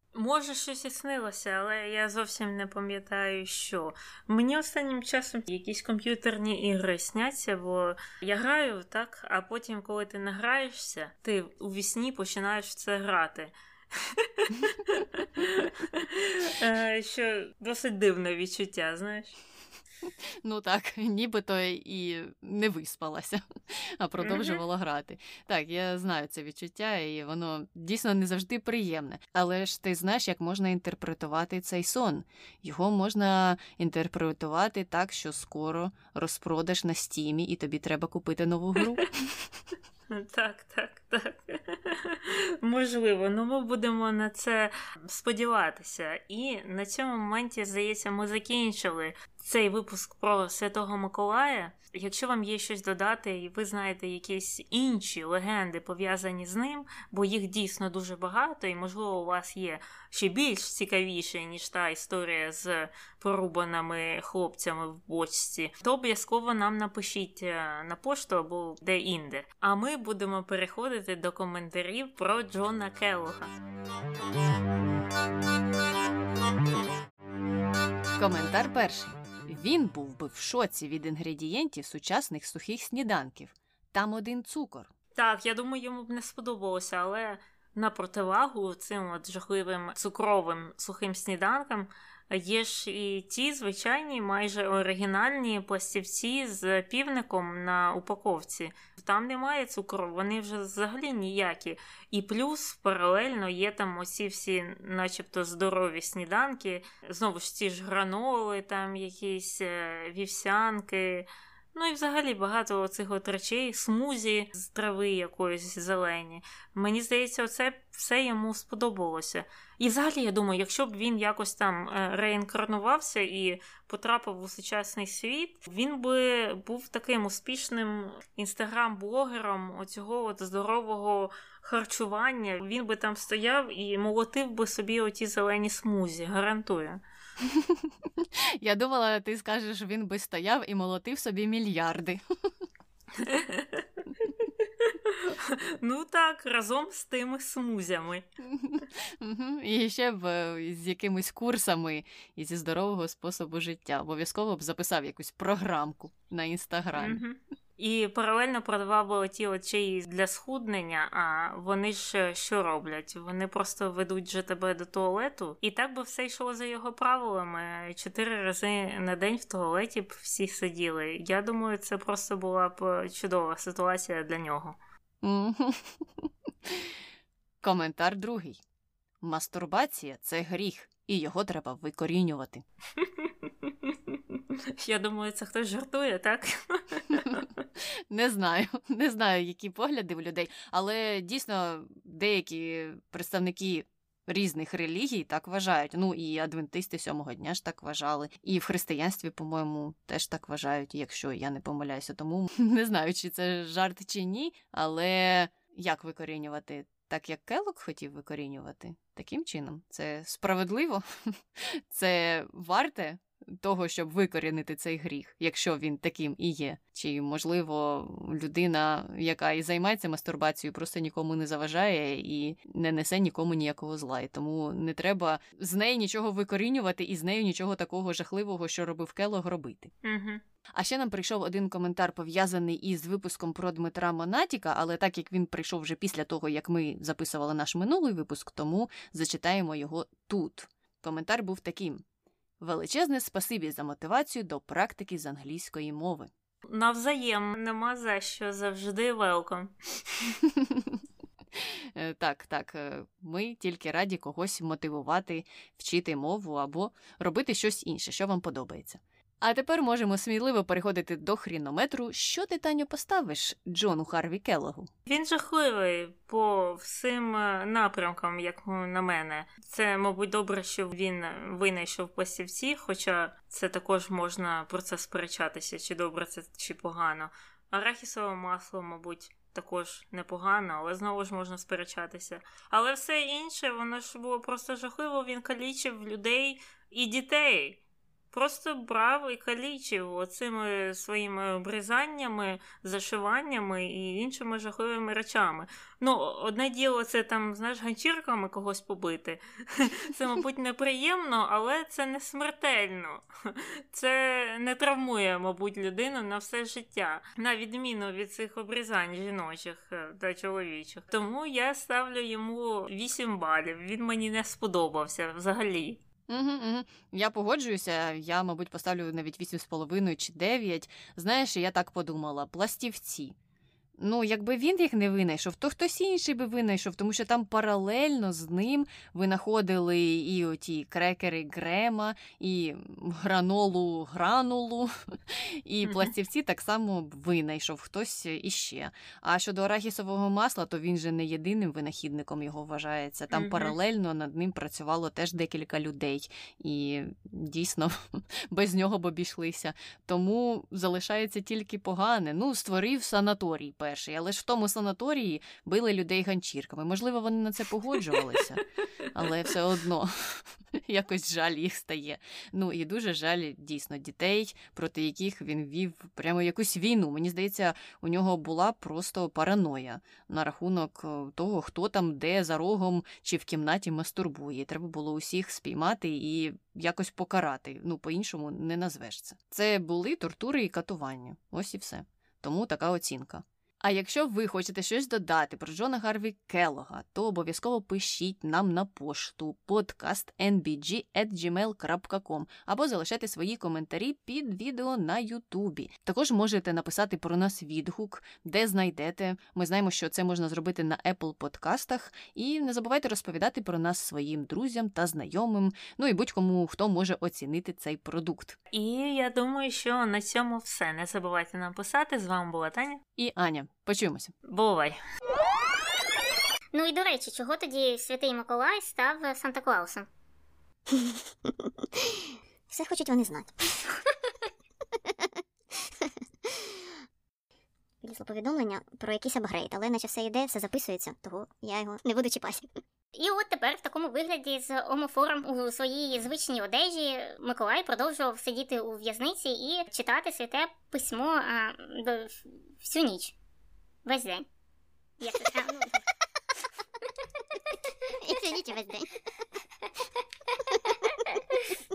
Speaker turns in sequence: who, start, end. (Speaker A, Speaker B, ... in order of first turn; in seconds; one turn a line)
Speaker A: 0.1-19.3
Speaker B: 20.4-39.1
Speaker A: 24.2-24.6
Speaker A: 40.1-73.5
Speaker B: 78.1-84.9
Speaker A: 85.1-137.0
Speaker B: 137.4-142.2
Speaker A: 143.2-148.2
Speaker B: 148.4-157.2
Speaker A: 156.9-174.8
Speaker B: 175.2-176.9
Speaker B: 177.6-178.6
Speaker B: 179.2-182.6
Speaker A: 183.0-187.5
Speaker B: 187.8-229.9
Speaker A: 230.0-230.4
Speaker B: 230.7-242.0
Speaker B: 242.6-246.3
Speaker A: 246.7-250.3
Speaker B: 250.4-251.0
Speaker B: 251.5-264.9
Speaker A: 265.1-287.8
Speaker A: 288.3-316.0
Speaker B: 316.3-323.3
Speaker B: 324.0-358.6
Speaker A: 335.9-336.1
Speaker A: 343.3-343.7
Speaker B: 359.1-408.6
Speaker A: 408.7-413.0
Speaker B: 413.2-414.3
Speaker A: 414.5-415.0
Speaker C: 416.7-420.1
Speaker D: 420.9-424.0
Speaker D: 425.8-426.8
Speaker D: 428.0-432.7
Speaker C: 433.1-443.3
Speaker C: 444.1-444.4
Speaker C: 445.2-446.0
Speaker D: 448.2-449.1
Speaker D: 450.7-451.1